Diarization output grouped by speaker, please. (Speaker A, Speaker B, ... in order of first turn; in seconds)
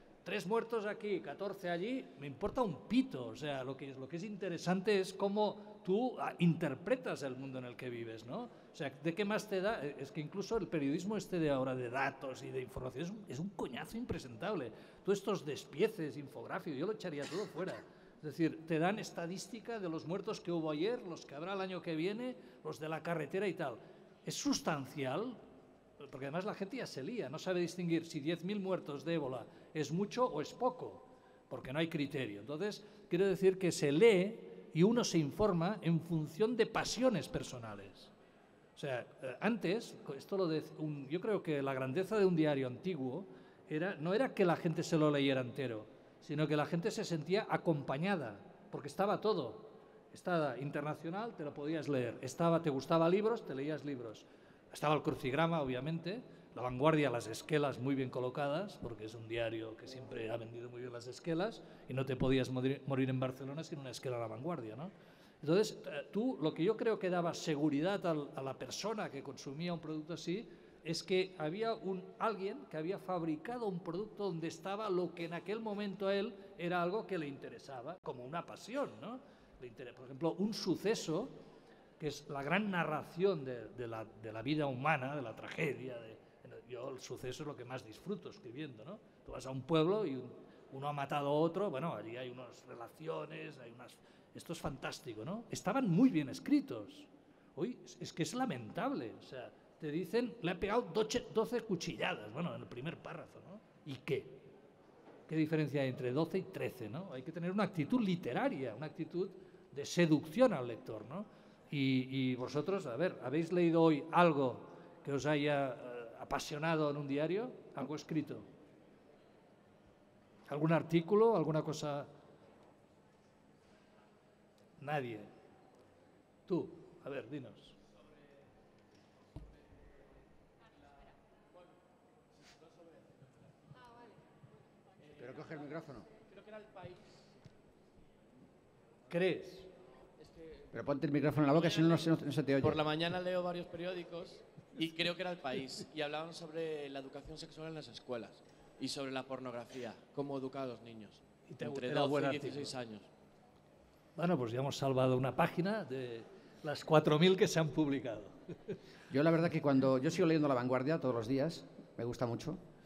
Speaker A: 0.2-25.4, 26.0-38.1, 38.8-64.9, 65.4-81.3, 82.0-104.4, 105.3-118.5, 120.5-122.1, 124.8-125.3, 126.5-127.8, 139.1-139.7, 151.5-152.7, 154.2-158.3
Speaker B: 135.2-136.1, 140.7-142.8, 159.1-162.6
Speaker C: 136.2-137.0, 140.2-140.7, 142.6-153.1